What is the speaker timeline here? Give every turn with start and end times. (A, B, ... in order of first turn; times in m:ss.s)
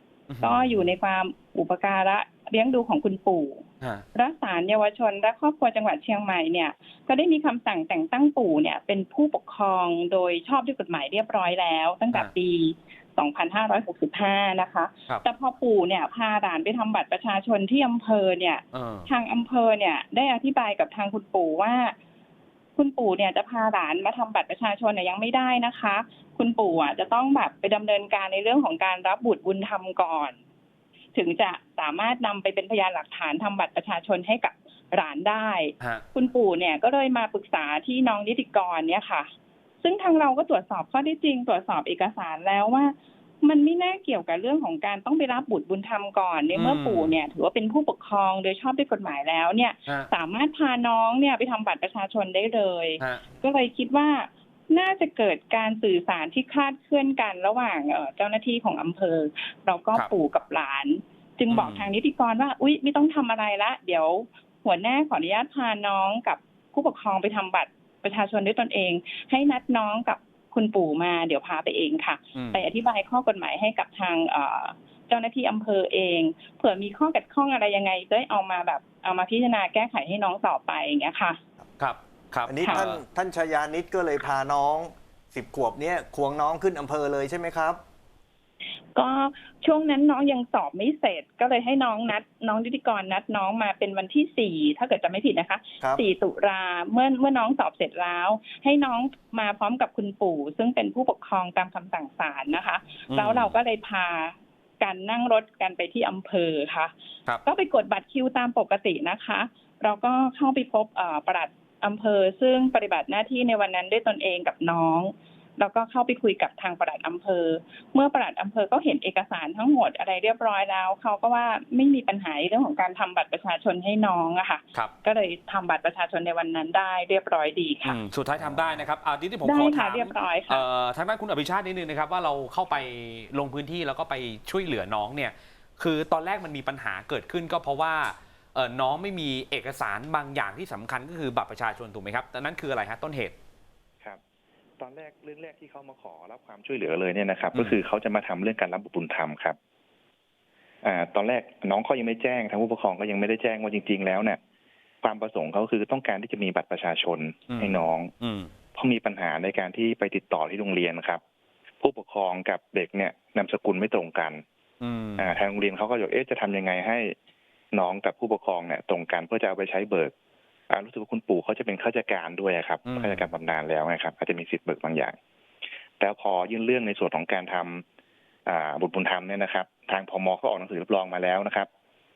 0:00.3-0:00.8 A
0:00.4-0:22.0 B
0:18.7-0:19.1 A
0:22.8-0:30.4 B
0:31.1-0:39.3 B
0:39.8-1:21.4 B
0:46.5-0:47.1 A
1:01.5-1:01.9 A
1:12.4-1:12.6 A
1:21.8-1:23.0 A
1:22.5-1:27.8 C
1:29.0-1:46.9 B
1:43.1-1:43.5 A
1:47.4-2:08.0 B
2:07.8-2:23.4 A
2:09.4-2:10.7 B
2:24.8-2:29.6 D
2:30.8-2:34.4 D
2:35.0-2:38.1 D
2:37.5-2:38.5 A
2:38.8-2:41.2 D
2:41.8-2:44.4 D
2:44.8-2:45.3 A
2:45.2-2:47.2 D
2:47.7-2:50.1 D
2:50.7-2:55.2 D
2:52.9-2:53.3 A
2:56.0-2:57.8 D
2:58.5-3:01.7 D